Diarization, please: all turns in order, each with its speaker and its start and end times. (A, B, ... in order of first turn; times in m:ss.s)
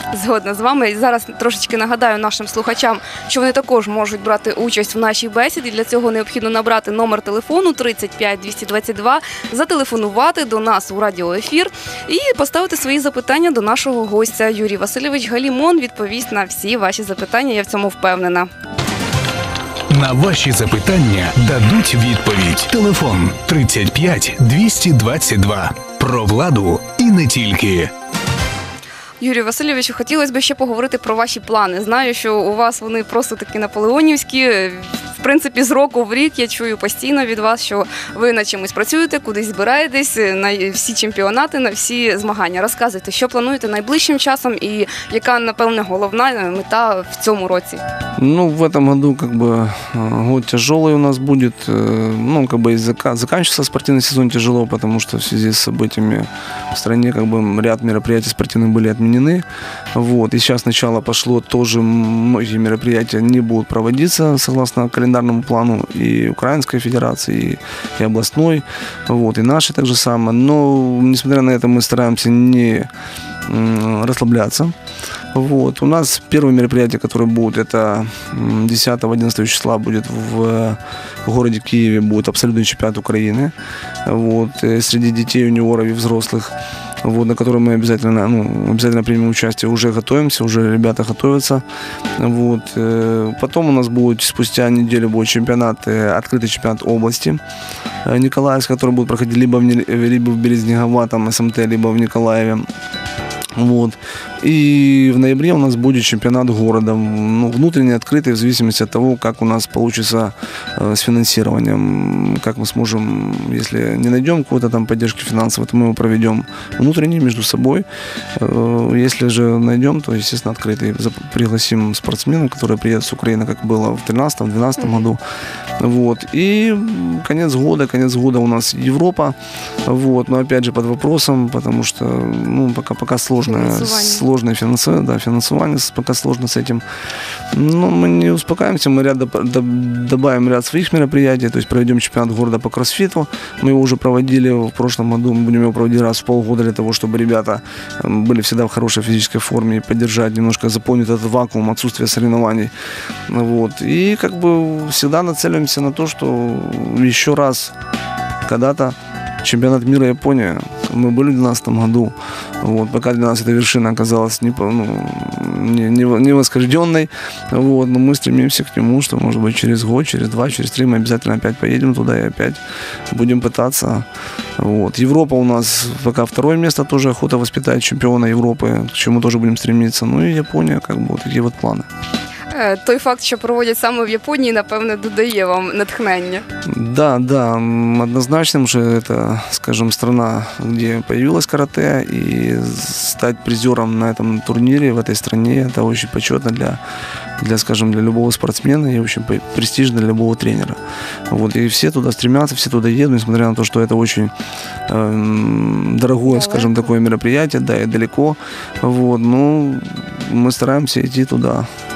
0:00.1-0:18.5 A
0:19.9-0:27.9 B
0:29.2-0:47.8 A
0:48.2-1:12.9 C
1:13.5-1:14.8 C
1:15.3-1:23.5 C
1:24.0-1:31.6 C
1:32.2-1:37.4 C
1:38.0-1:42.6 C
1:43.6-2:05.2 C
2:05.8-2:16.8 C
2:13.4-2:14.2 A
2:17.5-2:32.7 C
2:33.3-2:37.8 C
2:38.4-2:54.1 C
2:54.6-3:01.9 C
3:02.5-3:06.4 A
3:06.7-3:16.8 C
3:17.4-3:24.3 C
3:24.9-3:31.7 C
3:26.3-3:26.8 A